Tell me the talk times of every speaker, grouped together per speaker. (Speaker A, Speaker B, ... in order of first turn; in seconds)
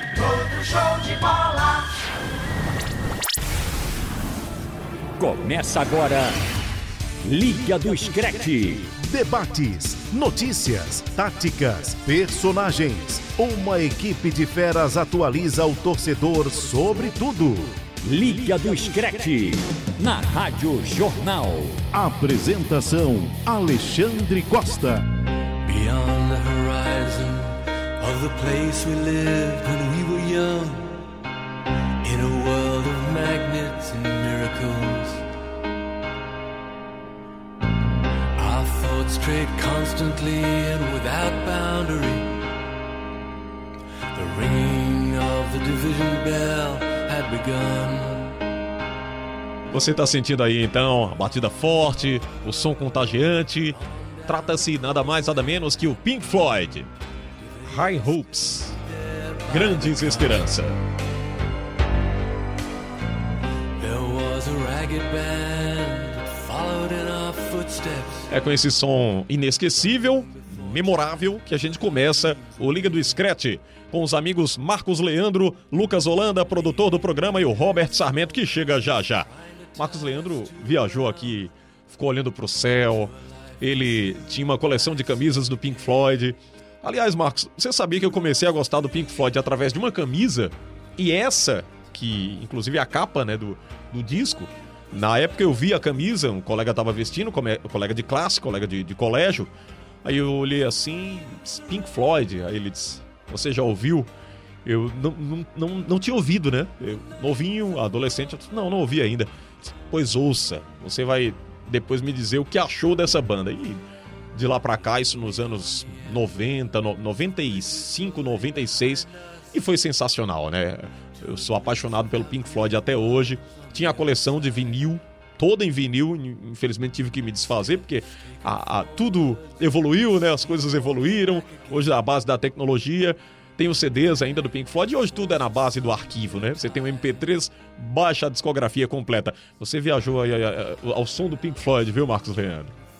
Speaker A: 5.2-6.4, 7.2-8.9, 18.0-21.8
Speaker B: 9.0-17.8, 21.9-25.1
Speaker C: 25.5-31.0, 32.0-35.2, 38.3-42.5, 44.1-48.4, 53.8-54.4, 57.4-60.5, 63.8-68.3, 70.3-70.9, 79.5-80.3
Speaker D: 49.7-56.9, 57.6-58.7, 59.5-60.8, 68.3-99.5, 100.0-104.1, 104.6-113.8, 114.3-142.7